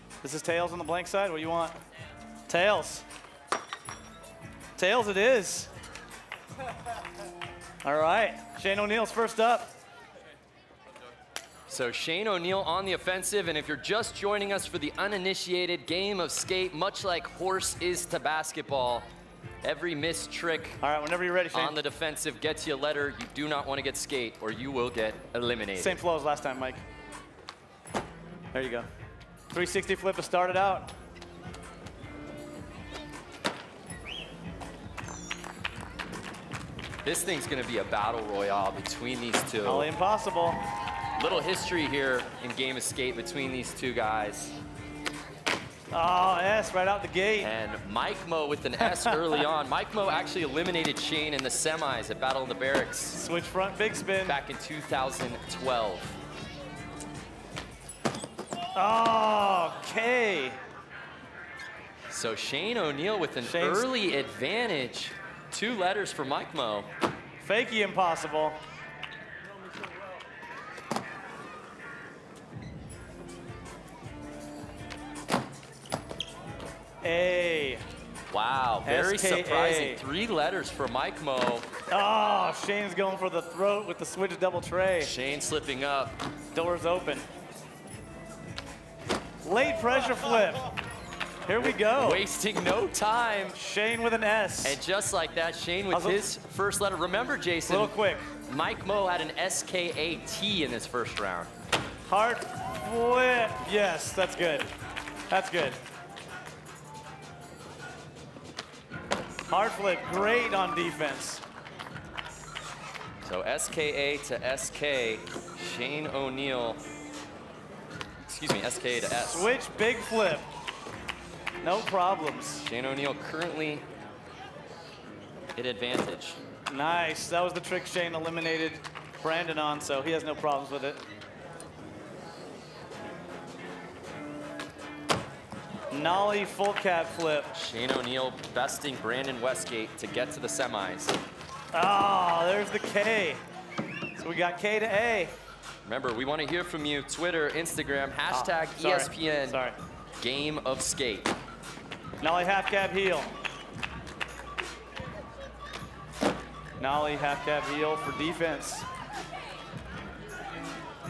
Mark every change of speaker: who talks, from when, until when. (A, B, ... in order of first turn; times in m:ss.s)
0:00.2-0:01.8 A
0:02.5-0:03.0 A
0:04.8-0:05.7 A
0:07.8-0:09.7 A
0:11.7-0:19.1 B
0:19.6-0:20.8 B
0:20.8-0:21.8 A
0:21.5-0:26.0 B
0:25.8-0:26.8 A
0:28.5-0:28.9 A
0:29.5-0:30.9 A
0:37.0-0:39.9 B
0:39.6-0:40.6 A
0:41.2-0:44.6 B
0:45.9-0:47.5 A
0:47.4-0:53.2 B
0:48.8-0:49.4 A
0:53.1-0:54.4 A
0:54.2-0:56.2 B
0:58.8-1:00.6 A
1:02.1-1:06.9 B
1:03.4-1:03.9 A
1:07.4-1:08.6 A
1:17.0-1:17.8 A
1:18.3-1:21.7 B
1:18.8-1:20.0 A
1:21.9-1:25.1 A
1:25.0-1:26.2 B
1:26.5-1:27.2 A
1:29.4-1:30.6 A
1:31.4-1:32.2 A
1:32.0-1:33.6 B
1:33.6-1:34.8 A
1:34.6-1:37.9 B
1:35.9-1:36.2 A
1:37.7-1:38.3 A
1:38.5-1:41.5 B
1:42.1-1:44.7 A
1:45.3-1:45.8 A
1:49.5-1:51.4 A
1:53.2-1:56.8 B
1:58.2-1:59.5 B
1:59.2-2:00.5 A
2:01.6-2:02.6 A
2:02.6-2:03.8 B
2:05.6-2:06.4 B
2:06.7-2:11.0 A
2:15.9-2:17.5 A
2:17.5-2:21.2 B
2:21.7-2:23.4 A
2:24.2-2:25.4 A
2:25.8-2:29.6 B
2:28.3-2:29.8 A
2:30.2-2:31.3 B
2:32.2-2:33.3 A
2:36.8-2:38.8 A